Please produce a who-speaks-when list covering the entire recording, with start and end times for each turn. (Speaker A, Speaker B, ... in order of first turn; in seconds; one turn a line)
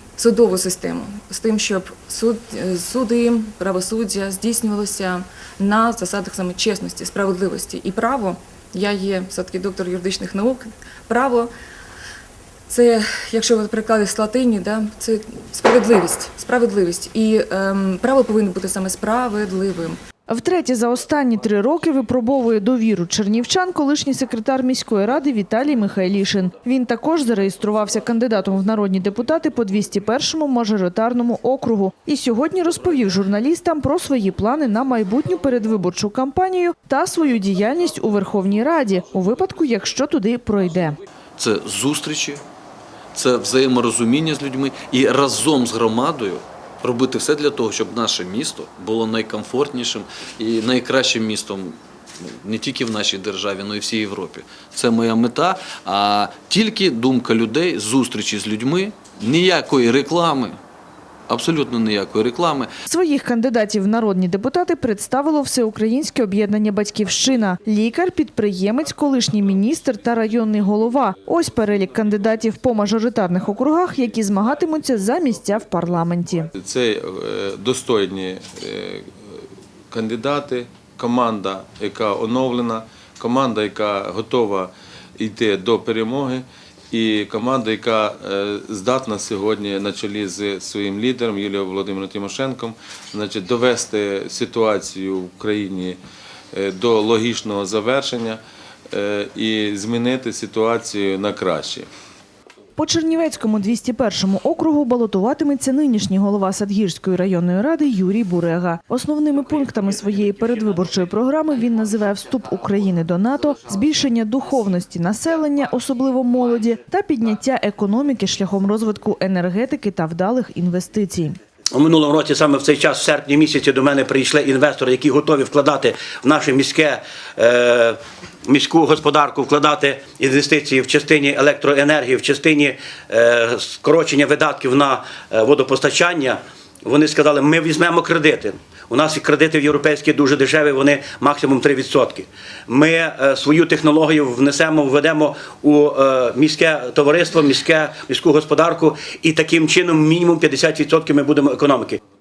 Speaker A: 0.2-11.5
Speaker A: 12.7-20.0
Speaker B: 20.3-41.0
Speaker C: 41.4-41.6
Speaker C: 43.1-45.1
Speaker C: 46.3-51.7
Speaker C: 52.6-60.5
Speaker C: 61.3-62.6
Speaker B: 62.9-76.5
Speaker D: 76.5-79.1
Speaker D: 79.9-96.0
Speaker D: 96.5-101.9
Speaker B: 102.8-121.3
Speaker E: 121.7-152.0